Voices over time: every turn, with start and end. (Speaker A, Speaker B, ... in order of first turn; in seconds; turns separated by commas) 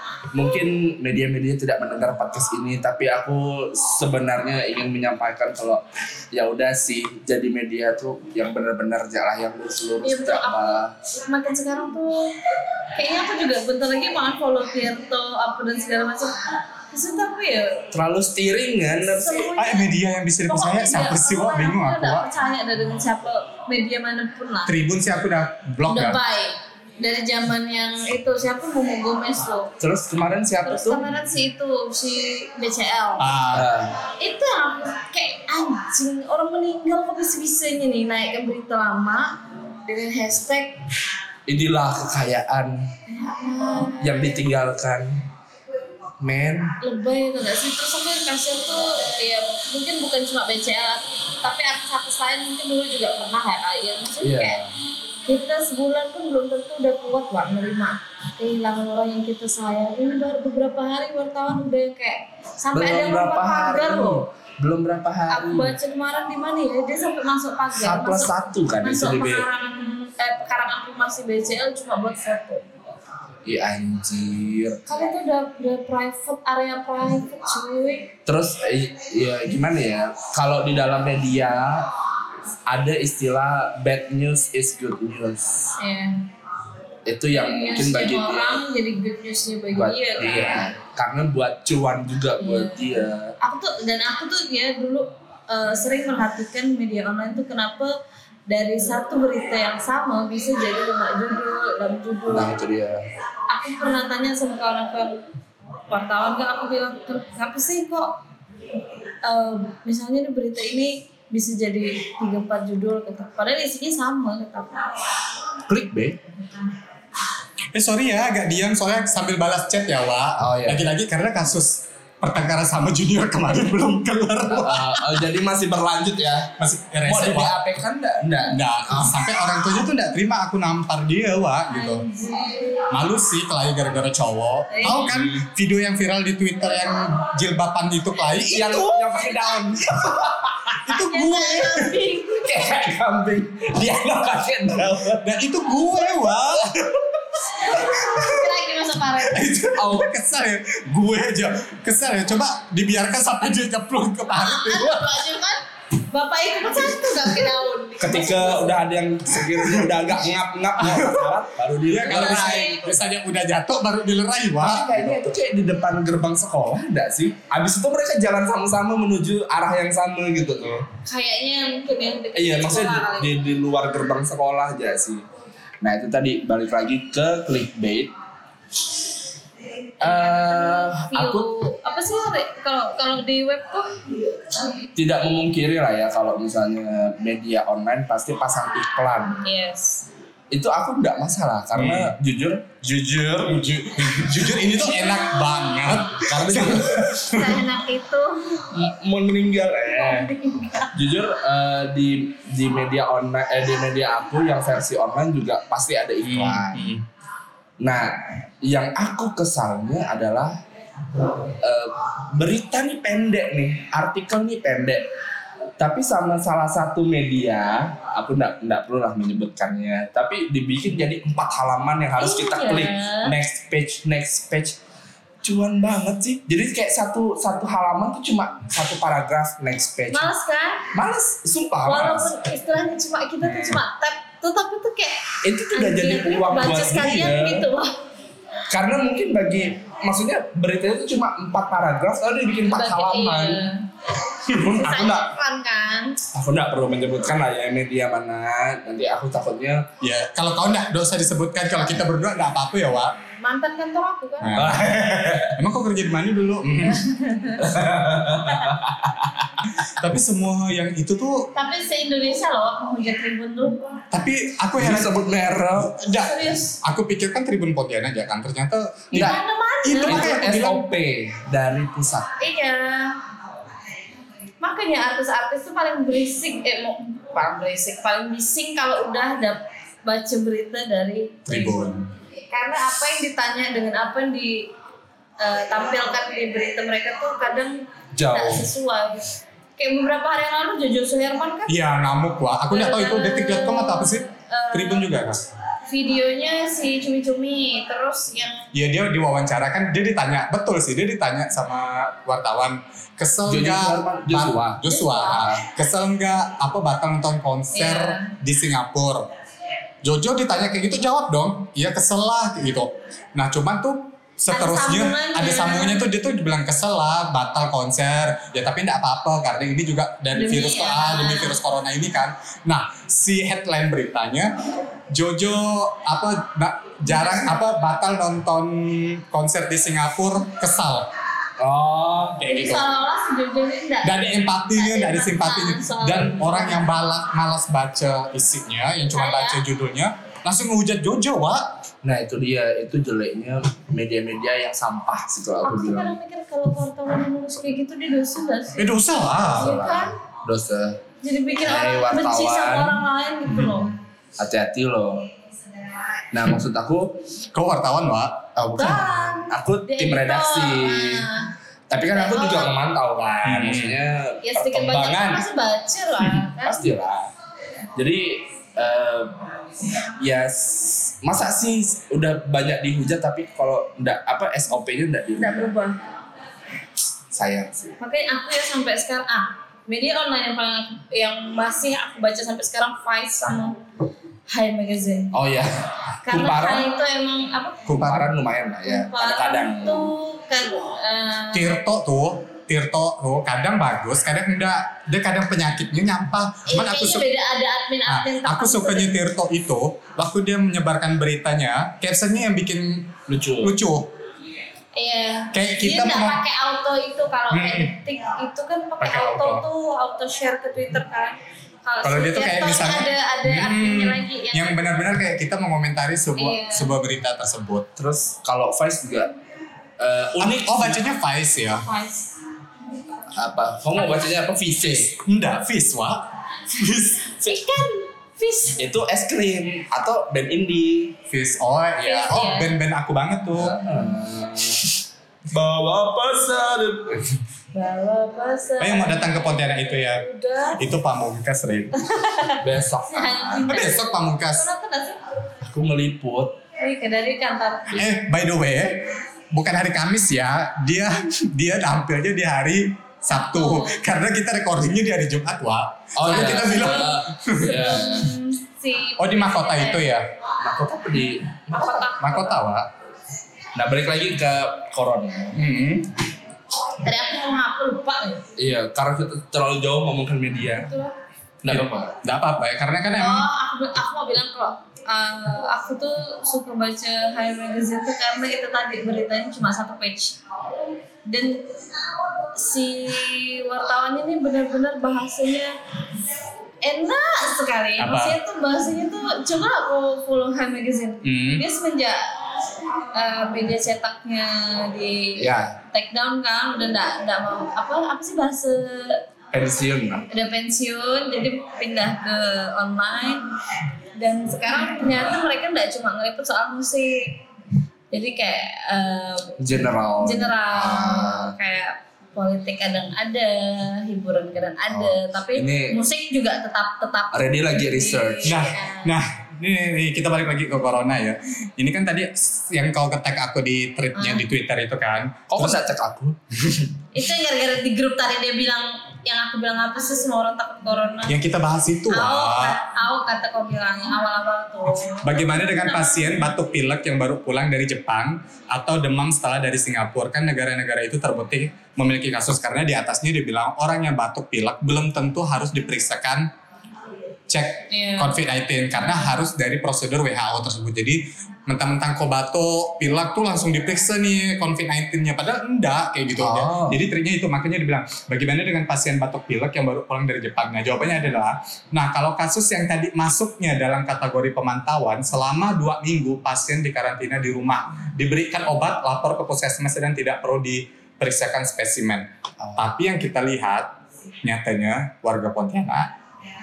Speaker A: 0.3-10.9, Speaker B: 10.0-12.4, Speaker B: 12.9-17.9, Speaker A: 17.9-19.5, Speaker B: 19.1-19.9, Speaker C: 19.6-22.3, Speaker B: 20.5-24.8, Speaker C: 24.7-26.2, Speaker B: 25.9-29.7, Speaker A: 29.8-31.0, Speaker B: 30.6-33.3, Speaker C: 33.2-33.7, Speaker A: 33.5-34.0, Speaker B: 34.0-40.8, Speaker A: 41.5-42.9, Speaker B: 43.1-44.5, Speaker A: 44.0-45.2, Speaker A: 46.2-46.8, Speaker B: 46.8-54.6, Speaker A: 54.2-54.8, Speaker B: 55.3-64.2, Speaker A: 62.7-65.7, Speaker B: 65.3-72.6, Speaker A: 67.7-69.5, Speaker A: 73.5-74.8, Speaker B: 74.9-78.1, Speaker A: 78.3-81.9, Speaker A: 82.7-85.8, Speaker B: 85.8-86.3, Speaker A: 87.1-88.6, Speaker B: 87.3-90.7, Speaker A: 89.7-93.4, Speaker B: 92.4-97.9, Speaker B: 98.5-102.6, Speaker A: 102.3-103.0, Speaker B: 103.5-105.2, Speaker B: 105.9-108.2, Speaker B: 109.2-114.9, Speaker A: 115.7-116.2, Speaker C: 117.7-125.2, Speaker A: 120.4-120.9, Speaker A: 124.5-129.2, Speaker C: 126.6-127.6, Speaker C: 128.4-132.1, Speaker B: 131.7-132.9, Speaker C: 132.9-139.1, Speaker B: 134.7-135.1, Speaker A: 135.0-135.4, Speaker A: 138.5-141.0, Speaker C: 140.8-142.1, Speaker B: 141.0-142.5, Speaker A: 142.3-145.3, Speaker C: 145.2-148.5, Speaker B: 147.6-149.4, Speaker C: 149.2-155.2, Speaker A: 149.8-150.1, Speaker B: 154.4-158.8, Speaker A: 158.0-162.9, Speaker C: 159.3-160.0, Speaker C: 160.8-165.0, Speaker B: 162.1-163.0, Speaker A: 164.6-170.9, Speaker B: 171.1-173.4, Speaker A: 172.3-175.2, Speaker A: 175.8-178.1, Speaker A: 180.0-181.5, Speaker B: 180.0-184.1, Speaker A: 184.9-189.4, Speaker B: 189.4-190.1, Speaker A: 190.5-194.5, Speaker C: 191.8-192.2, Speaker C: 193.4-197.7, Speaker B: 194.8-196.0, Speaker A: 196.2-197.0, Speaker B: 197.1-198.7, Speaker A: 198.7-200.3, Speaker B: 199.9-201.0, Speaker A: 200.9-206.9, Speaker C: 206.2-207.0, Speaker A: 207.8-210.6, Speaker A: 211.6-215.1, Speaker A: 215.8-224.8, Speaker B: 222.2-223.3, Speaker A: 225.4-230.3, Speaker B: 230.1-230.9, Speaker A: 230.9-232.3, Speaker B: 231.9-237.9, Speaker A: 235.4-237.7, Speaker A: 238.7-243.7, Speaker B: 242.7-243.9, Speaker B: 244.5-246.2, Speaker A: 244.5-245.2, Speaker A: 246.3-249.9, Speaker C: 250.0-253.2, Speaker B: 253.4-254.6, Speaker C: 254.4-257.1, Speaker A: 254.5-255.6, Speaker B: 256.9-257.7, Speaker A: 257.6-259.9, Speaker B: 258.4-258.7, Speaker C: 259.8-261.5, Speaker B: 261.6-263.9, Speaker C: 264.1-265.2, Speaker A: 264.8-265.9, Speaker C: 265.8-270.9, Speaker B: 266.1-266.8, Speaker A: 269.1-269.4, Speaker B: 269.1-270.3, Speaker A: 270.0-272.3, Speaker B: 272.4-273.2, Speaker B: 274.6-282.0, Speaker C: 281.5-282.0, Speaker B: 282.5-284.7, Speaker B: 285.4-291.8, Speaker A: 288.1-288.7, Speaker C: 291.7-295.4, Speaker B: 292.7-295.4, Speaker B: 295.9-298.7, Speaker C: 298.7-309.3, Speaker A: 303.5-305.6, Speaker B: 304.8-305.5, Speaker B: 307.7-308.3, Speaker C: 310.0-324.5, Speaker B: 314.5-316.0, Speaker B: 320.3-321.6, Speaker C: 325.1-331.1, Speaker B: 327.1-327.6, Speaker A: 331.6-332.4, Speaker C: 332.4-332.9, Speaker B: 332.5-336.9, Speaker C: 334.0-341.8, Speaker B: 339.1-339.6, Speaker A: 342.0-346.2, Speaker B: 345.6-350.1, Speaker C: 348.8-350.0, Speaker A: 349.4-351.0, Speaker B: 351.2-353.9, Speaker A: 351.6-353.0, Speaker C: 353.5-353.9, Speaker A: 354.4-355.3, Speaker A: 356.3-357.2, Speaker C: 357.5-359.0, Speaker A: 358.6-361.3, Speaker B: 358.8-362.8, Speaker A: 361.9-365.4, Speaker C: 363.4-364.0, Speaker B: 364.4-366.9, Speaker A: 366.6-367.3, Speaker A: 368.0-369.4, Speaker A: 370.2-375.8, Speaker B: 375.4-376.0, Speaker A: 377.3-378.0, Speaker B: 378.0-383.8, Speaker B: 384.5-385.3, Speaker A: 385.3-386.9, Speaker B: 386.3-387.9, Speaker C: 387.9-388.3, Speaker A: 387.9-390.1, Speaker B: 388.9-391.8, Speaker C: 391.5-397.3, Speaker B: 396.7-399.1, Speaker C: 398.1-404.1, Speaker A: 403.3-403.8, Speaker B: 404.9-414.9, Speaker C: 405.5-406.4, Speaker C: 407.5-408.0, Speaker C: 409.0-409.7, Speaker C: 412.0-417.9, Speaker B: 416.4-416.9, Speaker A: 418.0-419.3, Speaker A: 420.0-421.0, Speaker C: 420.4-421.9, Speaker B: 421.8-422.4, Speaker A: 423.3-425.2, Speaker B: 424.0-424.4, Speaker C: 425.1-427.4, Speaker B: 427.4-428.8, Speaker A: 428.8-431.2, Speaker C: 431.3-433.8, Speaker B: 432.0-432.8, Speaker A: 433.6-434.9, Speaker A: 435.5-437.4, Speaker B: 437.7-440.8, Speaker C: 438.8-441.9, Speaker B: 442.0-445.2, Speaker A: 442.6-444.0, Speaker C: 443.6-444.7, Speaker A: 445.6-446.6, Speaker B: 446.8-448.1, Speaker C: 447.9-458.0, Speaker B: 453.5-454.1, Speaker A: 456.1-458.4, Speaker B: 456.4-460.2, Speaker C: 459.2-460.3, Speaker A: 460.6-462.1, Speaker B: 461.7-462.6, Speaker C: 462.2-462.9, Speaker A: 463.8-465.6, Speaker C: 465.5-466.1, Speaker B: 467.0-468.4, Speaker A: 468.6-470.9, Speaker B: 470.7-471.1, Speaker A: 471.6-472.1, Speaker C: 471.7-473.5, Speaker B: 473.2-480.4, Speaker B: 481.2-481.7, Speaker B: 482.4-485.8, Speaker B: 486.8-492.3, Speaker C: 488.0-488.4, Speaker C: 491.2-491.6, Speaker B: 493.1-499.2, Speaker A: 495.4-495.8, Speaker A: 499.5-500.2, Speaker B: 500.3-503.5, Speaker B: 504.1-507.4, Speaker B: 508.1-519.1, Speaker A: 509.6-511.5, Speaker A: 514.9-516.0, Speaker A: 517.3-518.6, Speaker C: 518.5-525.9, Speaker B: 524.2-524.5, Speaker A: 525.5-526.8, Speaker B: 527.1-531.4, Speaker C: 531.3-532.8, Speaker B: 532.1-536.5, Speaker C: 535.2-546.5, Speaker C: 547.5-576.1, Speaker B: 547.9-548.4, Speaker A: 556.4-557.0, Speaker A: 572.6-572.9